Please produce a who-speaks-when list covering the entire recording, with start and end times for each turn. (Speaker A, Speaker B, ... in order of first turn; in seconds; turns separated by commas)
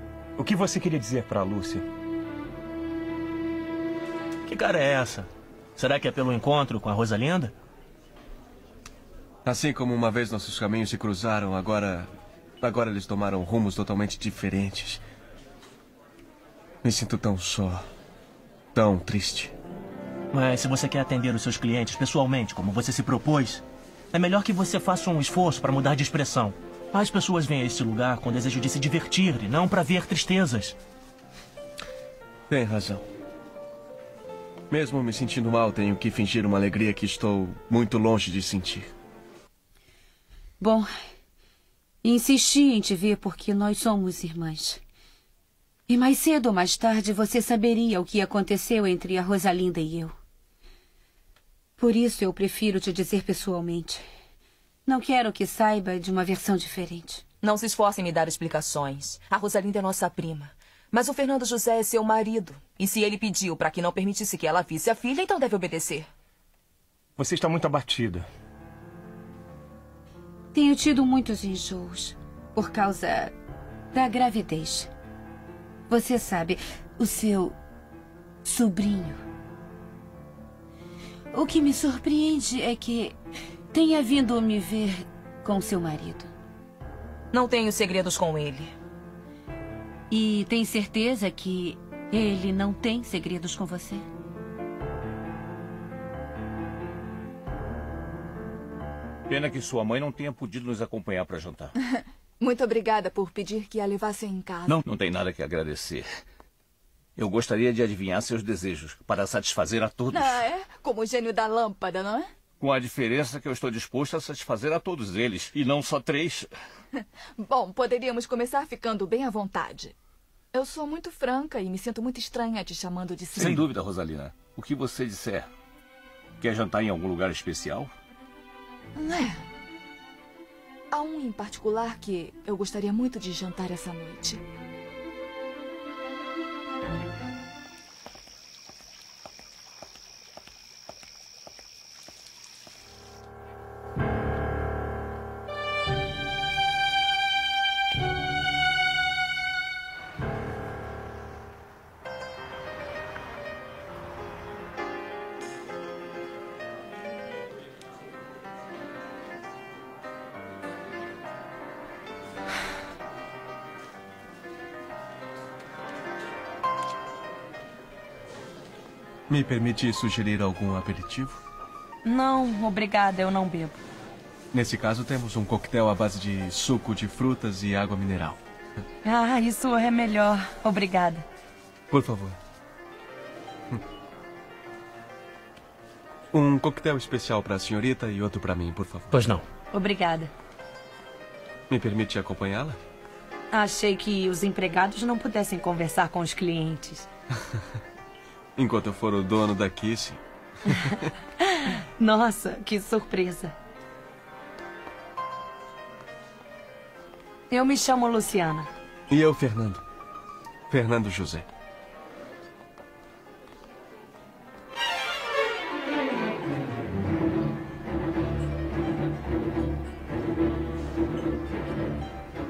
Speaker A: 0.4-1.9, Speaker B: 4.5-4.9, Speaker B: 6.5-7.4, Speaker C: 9.4-12.1, Speaker C: 12.6-15.0, Speaker C: 16.8-17.8, Speaker C: 18.7-19.5, Speaker B: 20.3-23.6, Speaker B: 24.1-30.7, Speaker C: 32.5-33.0, Speaker C: 34.7-38.9, Speaker D: 40.6-40.9, Speaker D: 42.0-44.8, Speaker D: 45.9-50.1, Speaker D: 51.8-54.0, Speaker D: 54.9-57.2, Speaker E: 57.4-66.1, Speaker A: 67.2-68.3, Speaker D: 70.5-73.3, Speaker D: 73.9-74.9, Speaker D: 75.9-77.5, Speaker D: 78.4-79.2, Speaker D: 81.3-83.2, Speaker D: 83.7-86.3, Speaker E: 87.3-88.7, Speaker D: 90.1-94.0, Speaker F: 99.3-101.7, Speaker G: 101.9-104.8, Speaker F: 104.8-106.0, Speaker F: 107.2-110.5, Speaker G: 110.1-112.3, Speaker F: 112.6-116.5, Speaker G: 117.0-119.9, Speaker G: 120.5-123.6, Speaker F: 123.3-125.5, Speaker F: 126.4-127.9, Speaker G: 128.9-129.4, Speaker G: 130.9-134.4, Speaker C: 169.3-171.4, Speaker H: 172.1-173.8, Speaker C: 174.5-178.4, Speaker H: 179.1-181.1, Speaker C: 181.9-182.4, Speaker C: 186.3-189.2, Speaker H: 189.7-190.2, Speaker C: 191.7-192.8, Speaker H: 193.5-197.0, Speaker C: 198.6-201.0, Speaker H: 201.6-203.5, Speaker H: 207.5-208.6, Speaker C: 209.1-209.8, Speaker C: 210.7-211.4